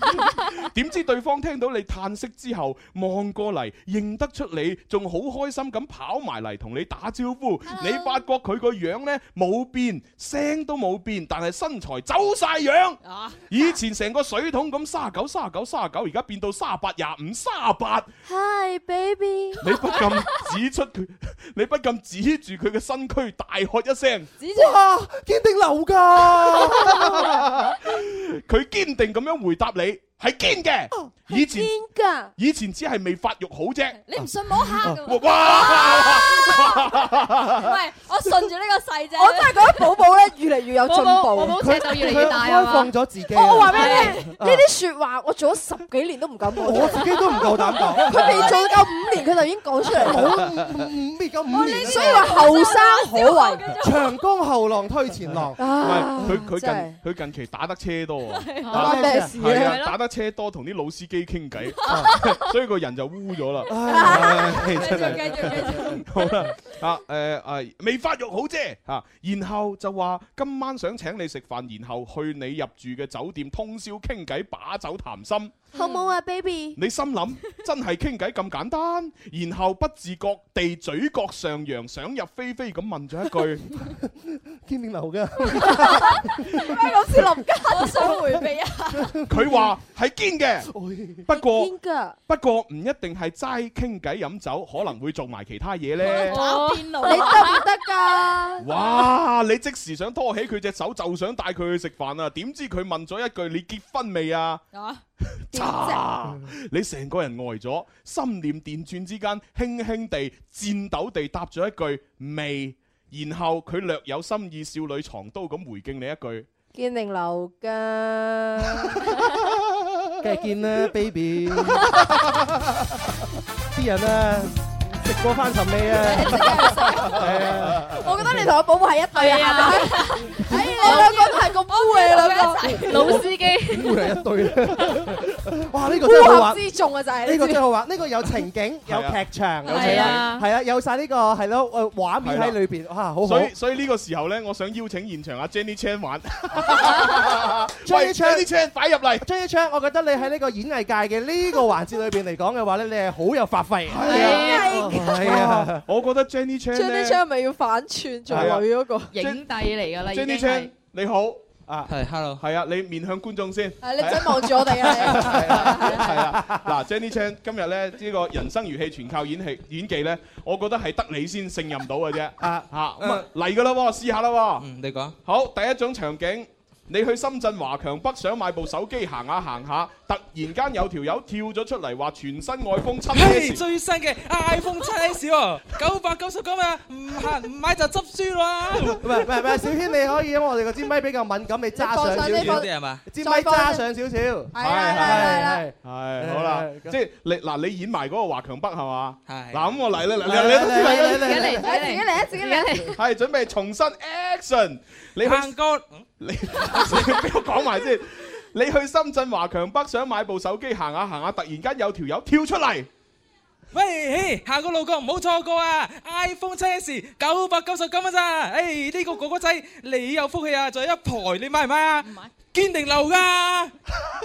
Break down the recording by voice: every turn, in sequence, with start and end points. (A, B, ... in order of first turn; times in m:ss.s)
0:00.6-0:18.1 A
0:07.7-0:08.2 B
0:18.3-0:20.0 C
0:19.6-0:24.3 A
0:24.4-0:24.8 C
0:24.5-0:27.5 D
0:27.1-0:31.7 A
0:31.3-0:32.3 C
0:32.4-0:34.0 A
0:34.1-0:36.8 B
0:34.8-0:37.8 A
0:37.6-0:39.8 B
0:39.2-0:41.8 C
0:40.8-0:42.9 B
0:41.6-0:44.6 D
0:43.3-0:50.6 C
0:43.6-0:44.3 B
0:46.6-0:48.5 D
0:47.8-0:48.8 B
0:50.0-0:52.5 D
0:51.5-0:54.2 B
0:51.5-0:53.6 C
0:53.8-0:55.6 D
0:55.6-0:57.0 C
0:55.8-1:15.6 A
0:58.3-0:59.9 B
0:58.7-0:59.8 C
0:58.7-0:59.4 D
1:01.7-1:02.4 B
1:01.9-1:02.1 D
1:03.7-1:06.5 D
1:03.9-1:04.9 C
1:04.6-1:06.0 B
1:15.7-1:16.1 B
1:15.7-1:16.8 C
1:16.8-1:23.8 A
1:24.0-1:26.8 D
1:25.6-1:28.4 C
1:27.7-1:29.1 B
1:28.9-1:29.6 D
1:29.3-1:30.7 A
1:30.7-1:31.3 D
1:31.3-1:31.7 A
1:31.3-1:32.2 C
1:32.3-1:36.5 A
1:36.0-1:37.7 B
1:36.3-1:38.7 C
1:38.6-1:44.6 A
1:44.7-1:45.0 B
1:45.5-1:56.5 A
1:45.5-1:46.0 C
1:56.7-1:59.2 C
2:00.2-2:03.0 D
2:03.7-2:08.1 D
2:06.0-2:13.3 C
2:06.4-2:06.7 B
2:09.1-2:14.2 B
2:10.5-2:11.1 D
2:12.9-2:16.6 D
2:16.0-2:17.6 C
2:17.2-2:23.5 D
2:18.9-2:20.4 A
2:19.6-2:20.4 B
2:22.2-2:22.6 A
2:23.2-2:29.2 A
2:27.8-2:28.5 D
2:29.2-2:35.8 D
2:34.0-2:37.2 A
2:34.0-2:35.0 B
2:34.0-2:35.7 C
2:36.7-2:39.1 C
2:38.3-2:41.4 A
2:39.1-2:40.7 B
2:41.9-2:42.4 E
2:42.4-2:54.7 A
2:43.8-2:46.2 C
2:45.2-2:46.6 D
2:52.4-2:53.2 D
2:54.6-2:55.2 E
2:55.2-3:03.6 A
3:03.1-3:09.7 E
3:09.0-3:17.0 D
3:11.7-3:13.9 C
3:12.3-3:13.1 E
3:14.5-3:15.6 C
3:14.6-3:21.4 A
3:19.3-3:19.9 E
3:20.2-3:21.7 D
3:20.7-3:23.0 C
3:20.8-3:23.0 B
3:23.0-3:25.6 A
3:25.2-3:27.3 E
3:26.2-3:32.9 A
3:33.7-3:43.7 E